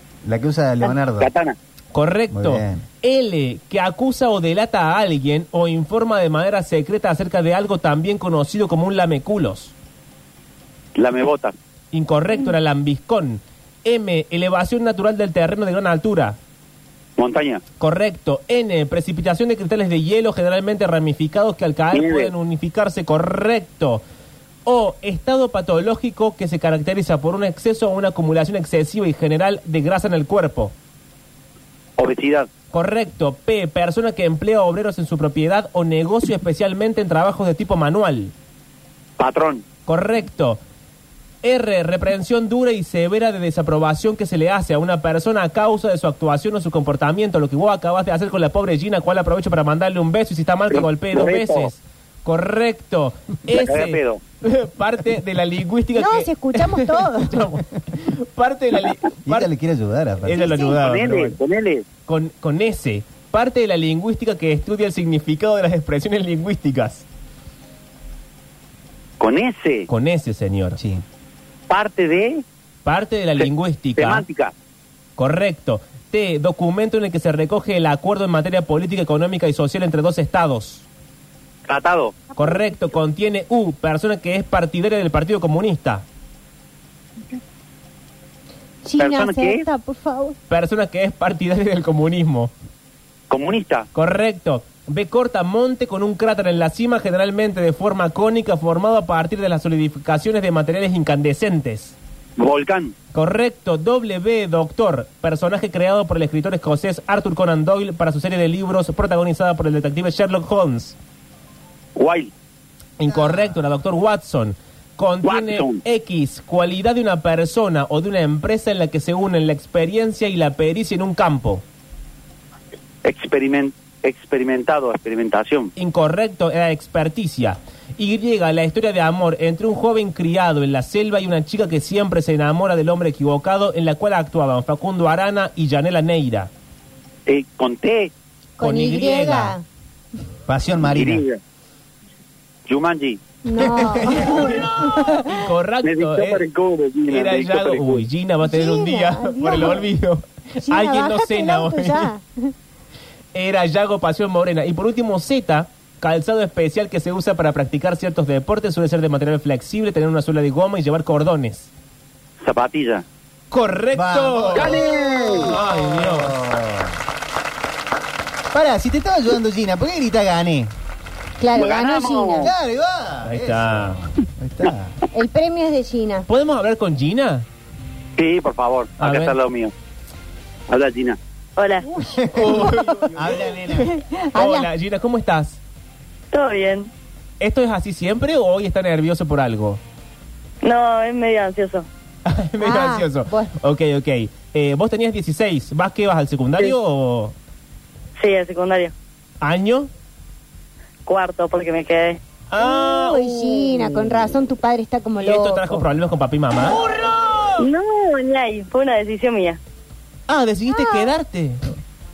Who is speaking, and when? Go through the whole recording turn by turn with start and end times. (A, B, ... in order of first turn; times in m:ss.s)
0:00.2-0:01.3 A
0:01.2-0:01.6 B
0:01.9-0:09.7 C
0:02.3-0:02.8 A
0:11.0-0:11.5 B
0:11.9-0:16.4 C
0:17.2-0:17.6 B
0:17.8-0:24.0 C
0:21.9-0:22.3 B
0:24.7-0:30.7 C
0:32.0-0:32.5 B
0:32.7-0:38.3 C
0:39.2-0:39.6 B
0:39.9-0:40.6 C
0:41.4-0:59.5 C
0:50.7-0:51.7 B
0:53.5-0:54.2 B
0:56.0-0:57.5 D
0:59.2-1:00.5 A
1:00.2-1:01.4 C
1:00.3-1:00.8 D
1:00.7-1:01.9 B
1:02.1-1:07.1 C
1:09.2-1:09.9 B
1:09.9-1:10.8 C
1:10.8-1:11.0 A
1:11.7-1:12.4 B
1:12.8-1:14.2 C
1:13.4-1:14.5 B
1:15.2-1:20.8 C
1:21.7-1:22.3 B
1:22.4-1:26.0 C
1:28.8-1:30.4 D
1:29.0-1:29.6 B
1:30.5-1:32.5 C
1:33.3-1:33.9 B
1:34.0-1:42.0 C
1:42.4-1:43.0 B
1:43.1-1:51.0 C
1:52.0-1:52.3 B
1:53.0-2:01.6 C
1:55.2-1:55.8 B
2:03.0-2:05.7 B
2:05.8-2:16.5 C
2:17.3-2:18.1 B
2:18.6-2:19.6 D
2:18.6-2:19.6 C
2:20.5-2:21.2 A
2:20.8-2:21.4 B
2:22.7-2:23.2 B
2:23.4-2:25.3 D
2:24.1-2:26.4 C
2:25.8-2:28.0 B
2:27.1-2:32.1 C
2:28.4-2:29.8 D
2:30.6-2:32.5 D
2:33.3-2:41.7 C
2:42.4-2:43.0 B
2:43.5-2:44.9 C
2:43.9-2:47.0 A
2:44.5-2:45.6 B
2:45.4-2:46.4 C
2:48.5-2:50.7 A
2:51.4-2:52.5 D
2:51.5-2:52.5 B
2:52.4-2:55.0 A
2:53.2-2:54.0 C
2:55.1-2:56.3 D
2:56.3-2:57.5 C
2:58.2-2:59.7 B
2:59.0-2:59.4 C
3:00.7-3:01.2 B
3:01.6-3:01.9 E
3:02.0-3:03.9 A
3:02.3-3:03.6 C
3:02.5-3:03.1 D
3:03.8-3:04.7 D
3:04.3-3:05.6 C
3:06.3-3:06.9 E
3:07.4-3:09.8 C
3:10.6-3:11.9 E
3:12.3-3:17.4 C
3:12.6-3:13.5 D
3:18.2-3:18.9 E
3:19.4-3:19.9 C
3:21.1-3:22.2 E
3:22.5-3:24.0 C
3:22.6-3:25.8 D
3:25.2-3:26.9 C
3:27.6-3:29.6 E
3:30.3-3:31.6 C
3:30.7-3:31.1 D